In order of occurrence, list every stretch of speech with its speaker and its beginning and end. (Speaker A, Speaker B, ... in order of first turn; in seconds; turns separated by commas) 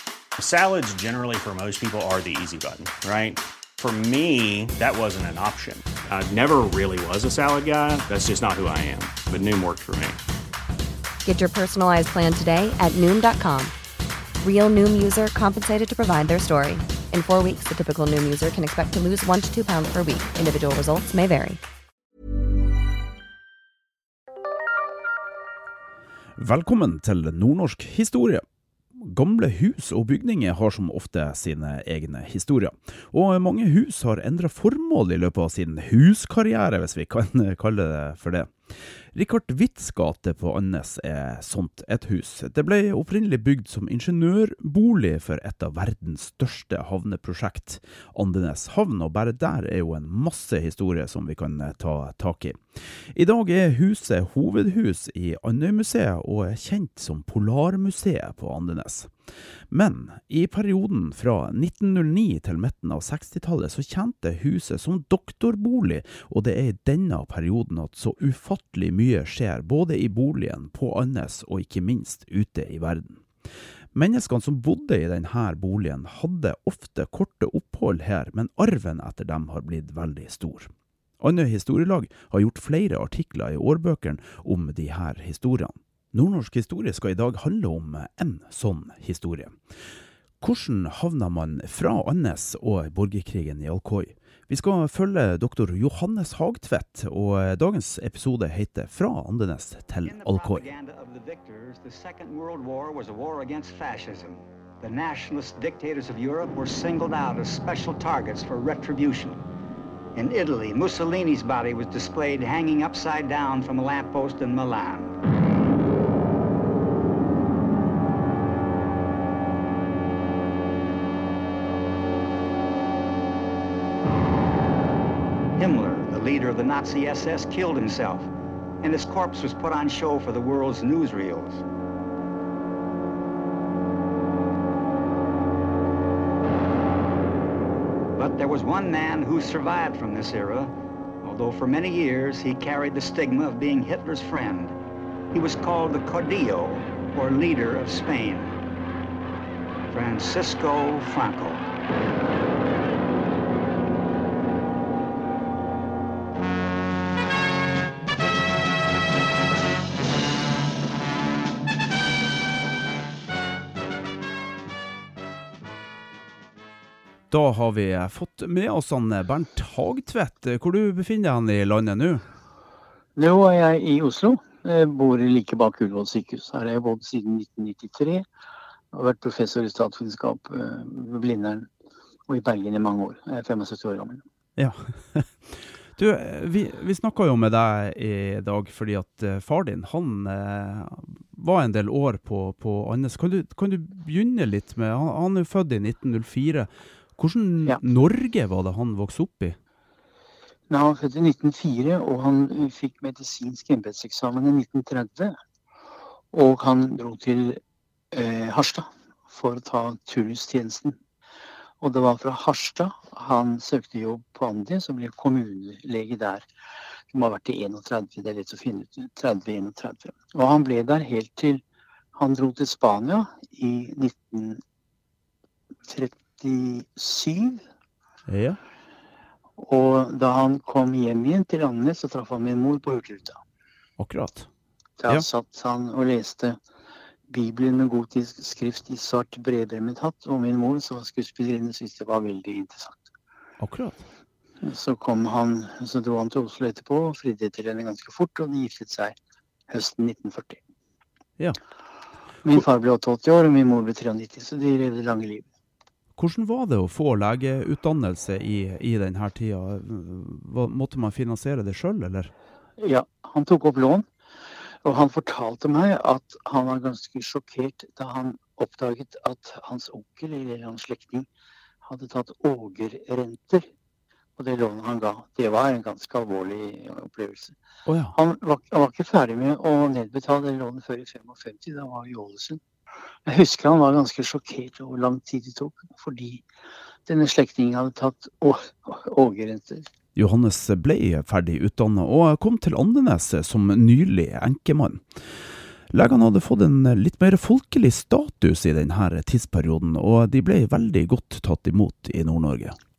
Speaker A: 0.4-10.2, Speaker B: 11.2-13.7, Speaker B: 14.4-21.6, Speaker C: 26.4-28.4, Speaker C: 29.0-59.1, Speaker C: 59.7-73.3, Speaker C: 73.9-89.5, Speaker C: 90.4-100.6, Speaker D: 100.0-109.4, Speaker D: 110.2-115.2, Speaker D: 125.6-131.6, Speaker D: 138.2-144.8, Speaker D: 145.3-148.6, Speaker D: 149.9-151.7, Speaker C: 167.3-172.2, Speaker E: 173.2-178.3, Speaker E: 178.9-181.7, Speaker E: 182.3-184.2, Speaker C: 184.6-199.6, Speaker E: 200.7-205.4, Speaker E: 206.3-207.6, Speaker E: 208.1-211.0, Speaker E: 211.8-216.5, Speaker E: 217.1-221.6, Speaker E: 222.2-224.6, Speaker E: 225.9-227.7, Speaker C: 228.3-228.6, Speaker E: 229.6-233.4, Speaker C: 234.0-234.5, Speaker E: 235.0-236.6, Speaker E: 237.3-243.1, Speaker C: 243.6-244.1, Speaker E: 244.6-249.2, Speaker E: 249.7-250.6, Speaker E: 252.4-255.5, Speaker C: 256.2-262.3, Speaker E: 262.8-264.1, Speaker E: 264.8-271.3, Speaker E: 271.8-273.7, Speaker E: 274.4-277.6, Speaker C: 277.9-278.1, Speaker E: 278.1-282.6, Speaker E: 283.3-286.4, Speaker E: 287.1-289.9, Speaker C: 290.2-295.2, Speaker C: 295.9-302.8